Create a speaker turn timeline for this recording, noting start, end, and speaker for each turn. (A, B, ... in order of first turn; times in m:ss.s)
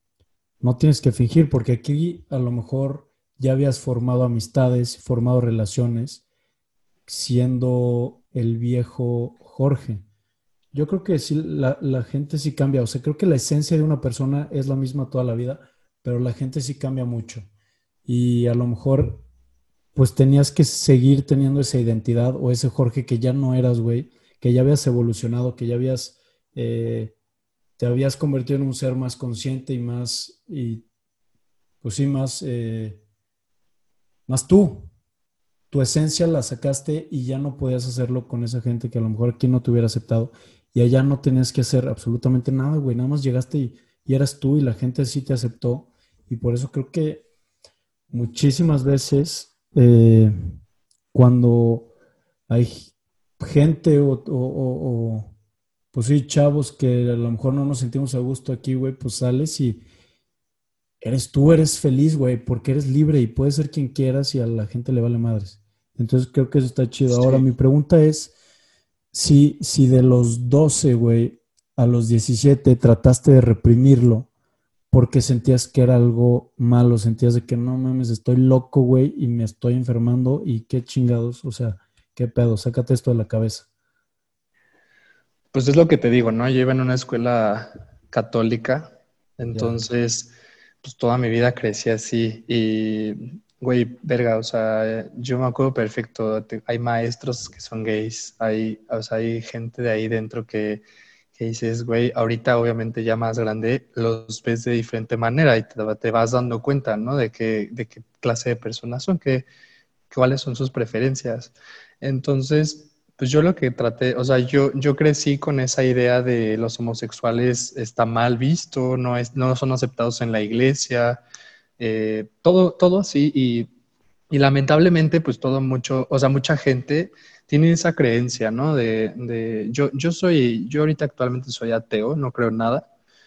0:00.6-0:06.2 A
0:07.1-0:10.0 A
0:10.7-0:17.4 A
0:18.0-0:19.2 A
0:19.9-0:27.1 A
0:27.8-0:30.8 A
0:31.8-0:33.0 A
0:34.3-0:34.9 A
0:35.7-0:47.2 A
0:48.1-0:50.3 A
0:51.1-0:51.9 A
0:52.5-0:55.3 A
0:55.9-0:59.8 A
1:01.0-1:08.3 A
1:07.1-1:07.5 B
1:09.1-1:14.3 A
1:14.9-1:23.7 A
1:25.5-1:40.8 B
1:29.5-1:29.8 A
1:41.4-1:49.5 B
1:50.1-2:01.2 B
2:01.8-2:03.7 B
2:04.3-2:12.8 B